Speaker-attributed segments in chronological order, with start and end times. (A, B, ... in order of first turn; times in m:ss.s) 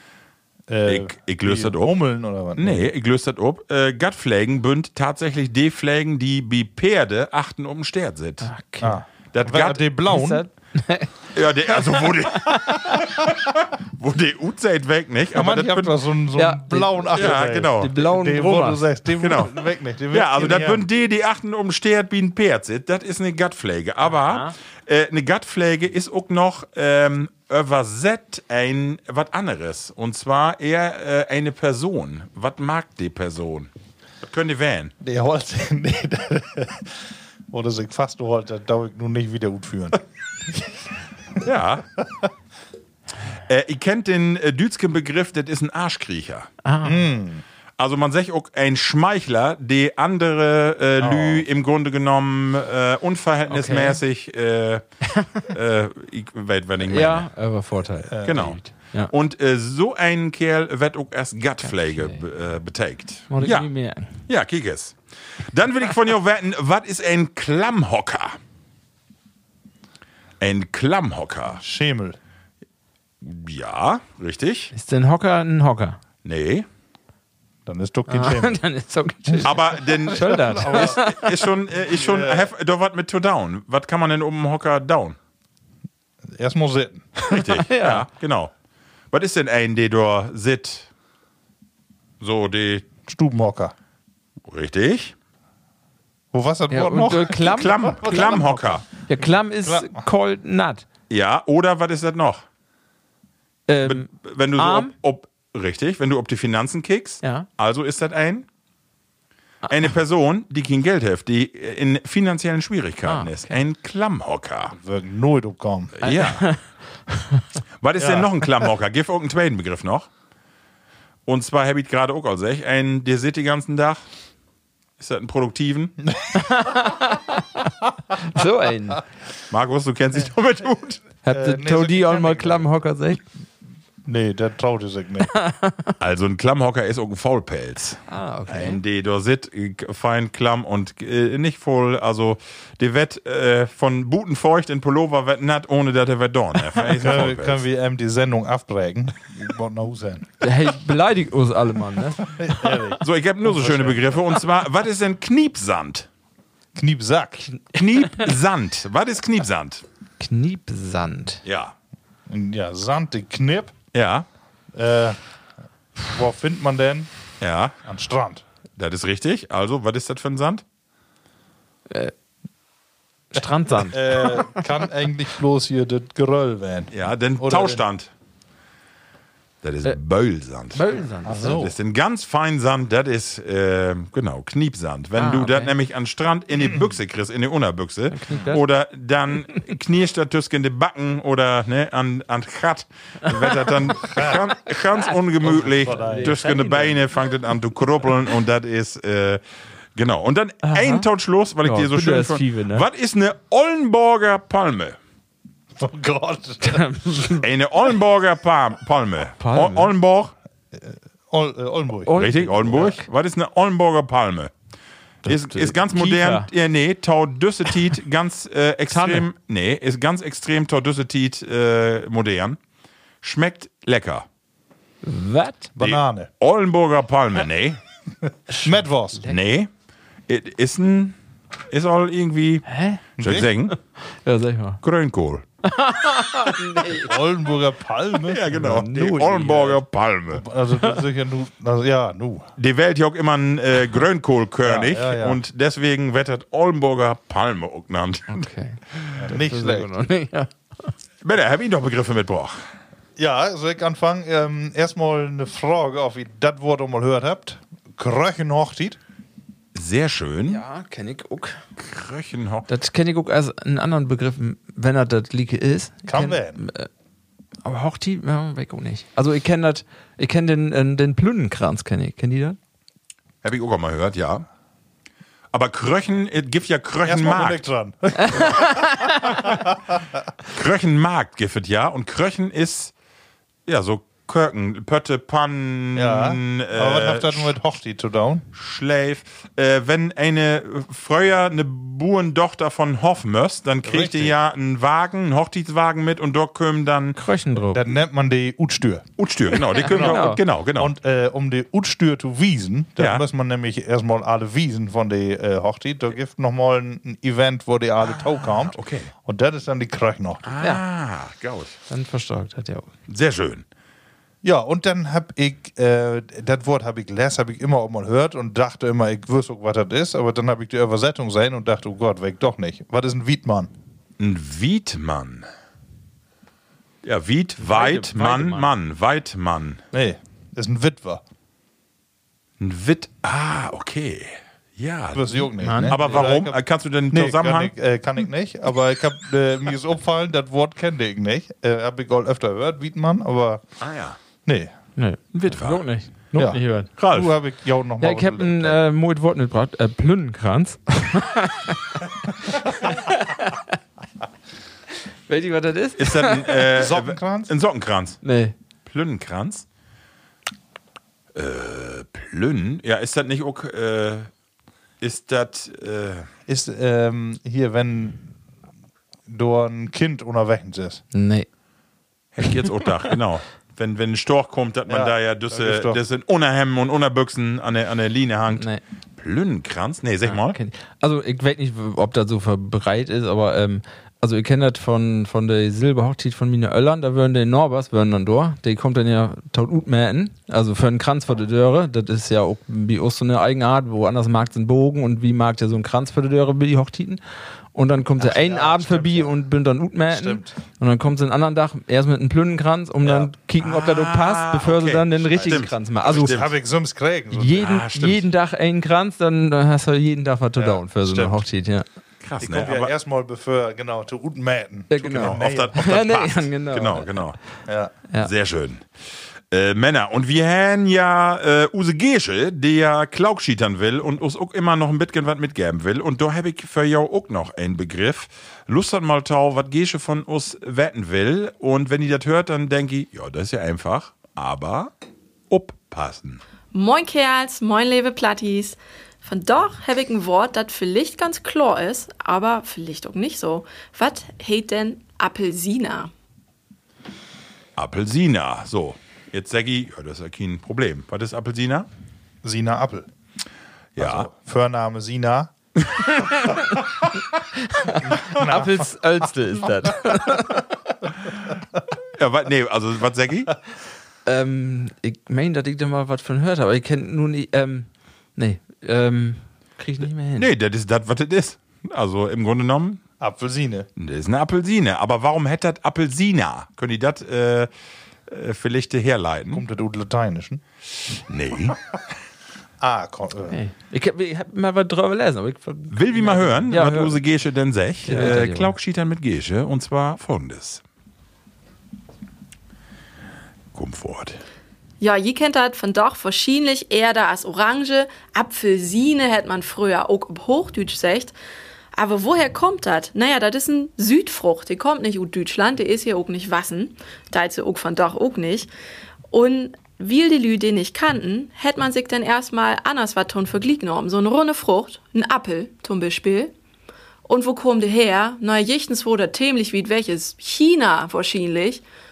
0:00.7-0:02.9 A
0:00.9-0:02.0 B
0:02.6-0:08.5 B
0:08.4-0:09.0 C
0:08.8-0:10.4 A
0:09.3-0:09.8 B
0:10.1-0:11.1 C
0:11.3-0:16.0 B
0:11.7-0:13.0 C
0:15.3-0:20.9 A
0:16.4-0:18.9 C
0:17.1-0:17.9 B
0:19.2-0:19.5 B
0:20.1-0:33.7 B
0:24.1-0:24.5 C
0:34.2-0:34.9 B
0:35.0-0:40.0 A
0:41.4-0:41.8 B
0:43.5-0:46.5 B
0:46.6-0:47.0 C
0:46.8-0:47.4 A
0:47.8-0:57.3 B
0:51.0-0:51.5 A
0:53.5-0:54.0 C
0:56.8-0:59.1 C
0:58.1-0:58.6 A
0:58.2-1:03.7 B
1:01.6-1:02.2 C
1:03.3-1:04.2 C
1:04.3-1:08.4 B
1:10.4-1:11.6 B
1:11.6-1:12.2 A
1:13.2-1:14.7 B
1:14.7-1:16.0 C
1:16.2-1:16.7 B
1:17.7-1:18.6 A
1:18.1-1:21.3 C
1:19.4-1:25.2 B
1:20.3-1:21.0 A
1:21.9-1:22.5 A
1:26.3-1:27.1 A
1:27.3-1:28.0 C
1:27.3-1:28.5 B
1:29.1-1:30.9 B
1:32.2-1:32.9 B
1:33.0-1:33.7 A
1:34.5-1:35.1 B
1:36.3-1:40.0 A
1:36.7-1:38.3 C
1:37.0-1:38.9 B
1:39.1-1:40.9 C
1:41.1-1:42.4 B
1:43.7-1:44.9 C
1:43.8-1:48.5 B
1:47.2-1:47.5 C
1:49.7-1:54.8 B
1:53.1-1:53.6 C
1:54.7-1:56.0 A
1:56.0-1:56.6 B
1:56.0-1:57.5 C
1:57.8-2:00.1 B
1:58.0-1:58.3 A
2:01.3-2:04.1 B
2:05.0-2:06.1 B
2:06.4-2:09.0 C
2:09.5-2:11.1 B
2:11.2-2:13.2 C
2:11.3-2:12.7 A
2:14.0-2:15.3 A
2:15.3-2:15.9 C
2:16.0-2:27.6 B
2:18.1-2:18.8 C
2:27.0-2:30.4 A
2:30.4-2:32.8 C
2:32.4-2:34.1 A
2:33.0-2:36.1 B
2:36.8-2:37.5 A
2:37.7-2:39.8 B
2:40.2-2:41.4 C
2:41.4-2:41.7 B
2:42.3-2:43.7 A
2:43.9-2:44.3 B
2:44.7-2:45.2 A
2:46.0-2:47.1 A
2:47.4-2:47.8 B
2:47.8-2:48.4 A
2:48.8-2:50.6 B
2:53.3-2:54.6 C
2:53.9-2:57.8 A
2:56.9-2:58.1 B
2:59.6-3:00.9 B
3:00.7-3:01.6 C
3:01.2-3:01.7 A
3:01.5-3:19.4 B
3:05.2-3:05.7 C
3:08.1-3:08.6 C
3:13.3-3:13.6 C
3:14.1-3:14.4 A
3:14.2-3:17.1 C
3:15.4-3:16.4 A
3:20.0-3:25.0 B
3:20.6-3:21.1 C
3:21.6-3:22.8 C
3:25.8-3:26.9 A
3:26.6-3:27.5 C
3:27.4-3:30.3 B
3:29.4-3:29.9 C
3:30.7-3:32.2 A
3:32.1-3:33.1 C
3:32.2-3:34.5 B
3:35.2-3:36.5 C
3:35.3-3:42.6 B
3:38.9-3:39.3 C
3:43.2-3:44.2 B
3:45.0-3:45.7 C
3:45.8-3:46.3 A
3:45.8-3:47.8 B
3:48.6-3:49.3 A
3:49.2-3:49.7 B
3:50.3-3:51.1 B
3:51.7-3:52.7 B
3:52.7-3:53.0 C
3:53.2-3:53.8 B
3:53.2-3:53.5 A
3:54.0-3:54.8 C
3:54.8-3:55.4 B
3:55.6-3:57.1 C
3:56.9-3:58.4 A
3:58.2-4:00.5 B
3:58.5-3:59.8 C
4:00.3-4:02.5 A
4:02.6-4:08.5 B
4:04.6-4:05.4 A
4:08.3-4:10.9 C
4:09.2-4:09.9 A
4:11.2-4:12.6 B
4:13.2-4:19.0 A
4:19.8-4:20.6 B
4:20.5-4:21.6 C
4:21.8-4:22.7 B
4:22.7-4:26.9 C
4:26.1-4:26.6 A
4:27.6-4:32.6 C
4:33.4-4:34.5 B
4:35.5-4:37.6 B
4:37.0-4:40.0 A
4:38.2-4:39.4 C
4:40.5-4:42.9 B
4:43.7-4:47.5 B
4:46.0-4:48.5 A
4:48.5-4:57.2 B
4:53.8-4:54.3 A
4:57.2-4:57.8 C
4:57.7-4:59.1 A
4:59.2-5:00.9 B
4:59.8-5:10.4 A
4:59.8-5:00.4 C
5:03.0-5:03.2 B
5:08.2-5:09.1 B
5:10.4-5:11.8 B
5:11.9-5:12.9 C
5:13.1-5:13.6 B
5:14.4-5:23.7 A
5:24.2-5:25.5 B
5:27.0-5:29.8 B
5:27.6-5:28.7 C
5:29.9-5:31.2 A
5:32.6-5:37.7 B
5:35.1-5:43.6 A
5:35.6-5:36.2 C
5:43.8-5:44.2 B
5:44.4-5:44.7 A
5:45.0-5:46.9 C
5:45.4-5:45.8 B
5:46.4-5:48.8 A
5:47.0-5:47.3 B
5:48.0-5:51.8 C
5:52.6-5:53.7 C
5:55.3-5:56.6 C
5:56.0-5:58.2 B
5:56.7-5:57.5 A
5:58.2-5:58.5 C
5:58.9-5:59.6 B
6:01.4-6:04.3 B
6:05.0-6:06.3 B
6:06.5-6:08.2 A
6:09.3-6:11.0 A
6:11.1-6:11.5 C
6:12.4-6:20.6 B
6:14.9-6:16.0 A
6:18.6-6:18.8 C
6:20.2-6:37.2 C
6:37.7-6:46.4 C
6:38.2-6:39.4 A
6:40.1-6:40.6 A
6:43.0-6:43.3 A
6:43.6-6:46.5 B
6:45.4-6:47.7 A
6:47.3-6:51.9 C
6:47.6-6:48.2 B
6:50.6-6:51.4 A
6:52.2-6:52.9 B
6:52.4-6:55.8 A
6:54.9-6:57.3 C
6:55.0-6:57.4 B
6:57.7-6:57.9 A
6:58.2-6:58.8 B
6:59.5-7:14.9 B
7:15.5-7:16.4 B
7:16.7-7:26.1 D
7:27.8-7:31.9 B
7:32.4-7:33.1 A
7:34.0-7:34.3 B
7:34.0-7:35.5 A
7:36.0-7:36.8 C
7:37.5-7:40.7 C
7:38.3-7:38.8 A
7:42.2-7:43.6 B
7:44.3-7:50.5 C
7:50.4-7:53.0 B
7:53.2-7:53.9 A
7:54.0-7:57.7 B
7:58.3-7:59.6 B
7:59.5-8:00.6 A
8:01.3-8:01.8 B
8:02.8-8:03.6 A
8:03.5-8:07.2 C
8:05.9-8:10.8 B
8:08.0-8:08.7 C
8:13.7-8:14.4 B
8:15.0-8:21.3 D
8:22.0-8:28.7 D
8:29.3-8:36.5 D
8:37.3-8:41.8 D